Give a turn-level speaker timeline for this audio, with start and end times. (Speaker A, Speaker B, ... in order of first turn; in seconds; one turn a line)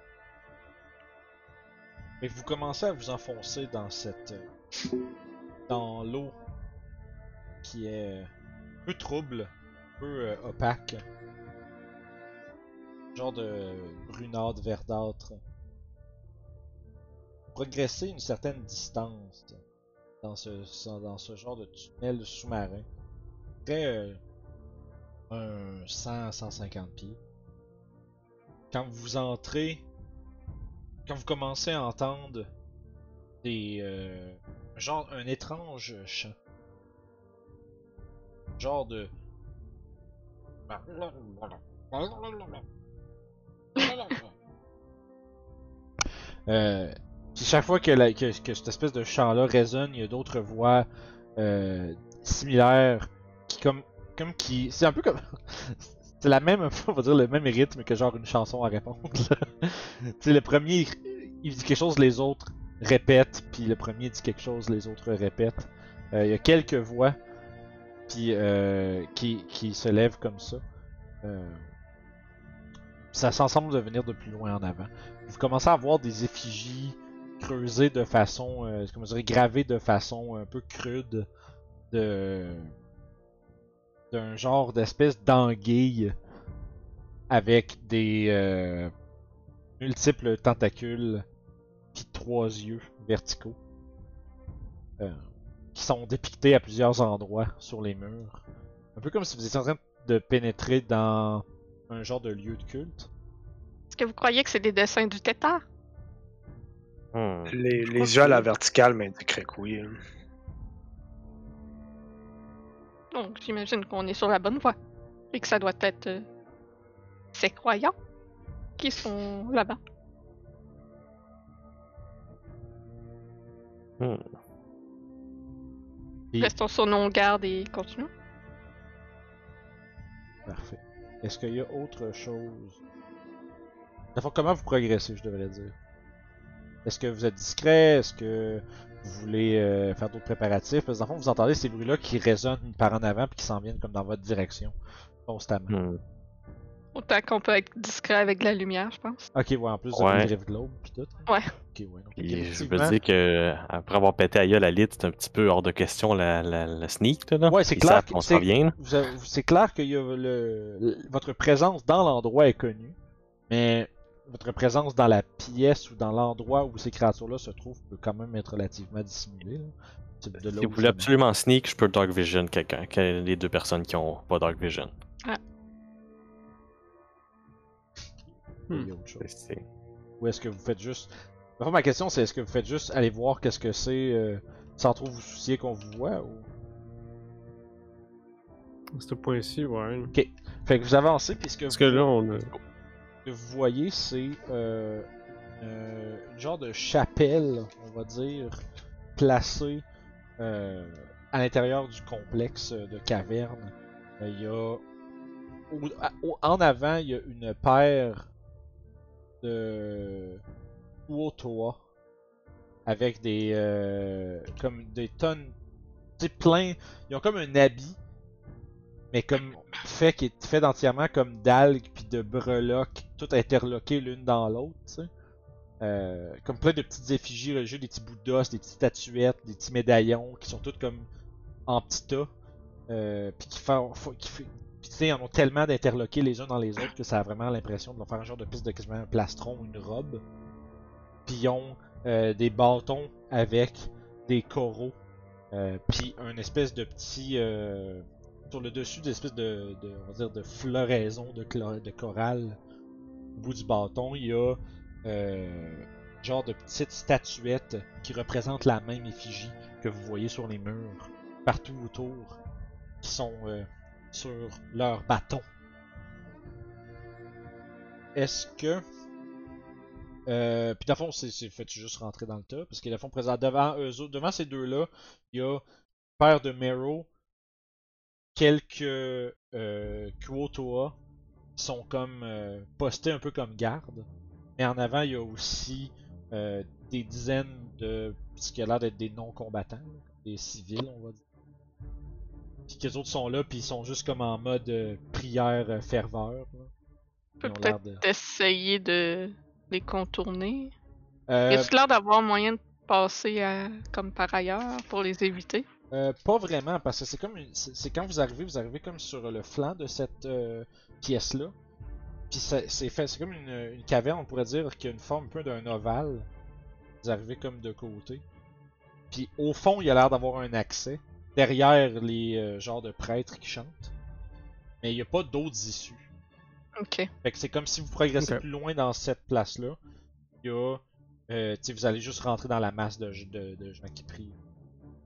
Speaker A: 2.2-4.5
Speaker A: 5.7-6.4
Speaker A: 7.6-8.3
Speaker A: 8.8-11.0
Speaker A: 13.1-15.4
Speaker A: 17.5-19.6
Speaker A: 20.2-22.9
Speaker A: 23.6-24.2
Speaker A: 25.3-27.2
Speaker A: 28.7-29.8
Speaker A: 31.1-32.5
Speaker A: 33.4-36.3
Speaker A: 38.6-39.1
Speaker A: 40.7-42.6
Speaker A: 43.8-44.3
Speaker A: 46.5-67.2
Speaker A: 68.1-70.6
Speaker A: 71.2-71.7
Speaker A: 73.1-81.3
Speaker A: 81.9-82.7
Speaker A: 84.1-86.1
Speaker A: 87.3-88.9
Speaker A: 89.8-91.2
Speaker A: 91.9-93.6
Speaker A: 95.7-98.4
Speaker A: 99.0-103.1
Speaker B: 103.9-105.6
Speaker C: 107.1-107.5
Speaker D: 107.5-110.0
Speaker B: 113.1-114.8
Speaker B: 115.3-116.2
Speaker B: 117.3-117.9
Speaker B: 118.8-119.8
Speaker C: 124.0-124.3
Speaker B: 126.4-128.1
Speaker A: 130.4-132.8
Speaker A: 134.1-135.7
Speaker A: 136.8-144.7
Speaker A: 145.2-145.7
Speaker C: 145.7-146.0
Speaker B: 146.9-149.3
Speaker A: 149.3-151.2
Speaker C: 149.9-150.3
Speaker A: 151.7-153.0
Speaker C: 152.2-158.8
Speaker A: 157.5-162.9
Speaker A: 163.5-171.1
Speaker C: 170.4-174.9
Speaker A: 178.7-179.2
Speaker C: 179.2-179.6
Speaker A: 180.2-186.5
Speaker E: 188.9-190.1
Speaker A: 190.1-192.1
Speaker E: 191.7-192.5
Speaker A: 193.2-195.1
Speaker A: 195.6-198.6
Speaker A: 199.2-199.8
Speaker A: 200.4-204.8
Speaker A: 205.7-208.3
Speaker A: 209.4-210.4
Speaker A: 211.1-211.8
Speaker A: 212.8-215.5
Speaker A: 216.2-218.0
Speaker A: 219.1-225.1
Speaker A: 225.8-231.1
Speaker A: 231.7-232.3
Speaker A: 232.9-240.2
Speaker A: 241.2-245.0
Speaker A: 245.5-252.6
Speaker A: 253.3-262.4
Speaker A: 263.0-265.4
Speaker A: 268.1-268.8
Speaker A: 270.3-275.6
Speaker A: 276.2-277.1
Speaker A: 278.3-280.9
Speaker A: 281.6-284.1
Speaker A: 284.6-291.2
Speaker A: 292.7-296.7
Speaker B: 297.4-300.7
Speaker A: 297.4-298.0
Speaker A: 301.3-301.7
Speaker B: 301.5-305.6
Speaker A: 305.9-311.5
Speaker A: 312.3-316.3
Speaker A: 317.0-318.2
Speaker A: 319.1-323.9
Speaker A: 324.8-326.1
Speaker B: 326.8-327.1
Speaker A: 327.2-329.8
Speaker A: 330.4-334.3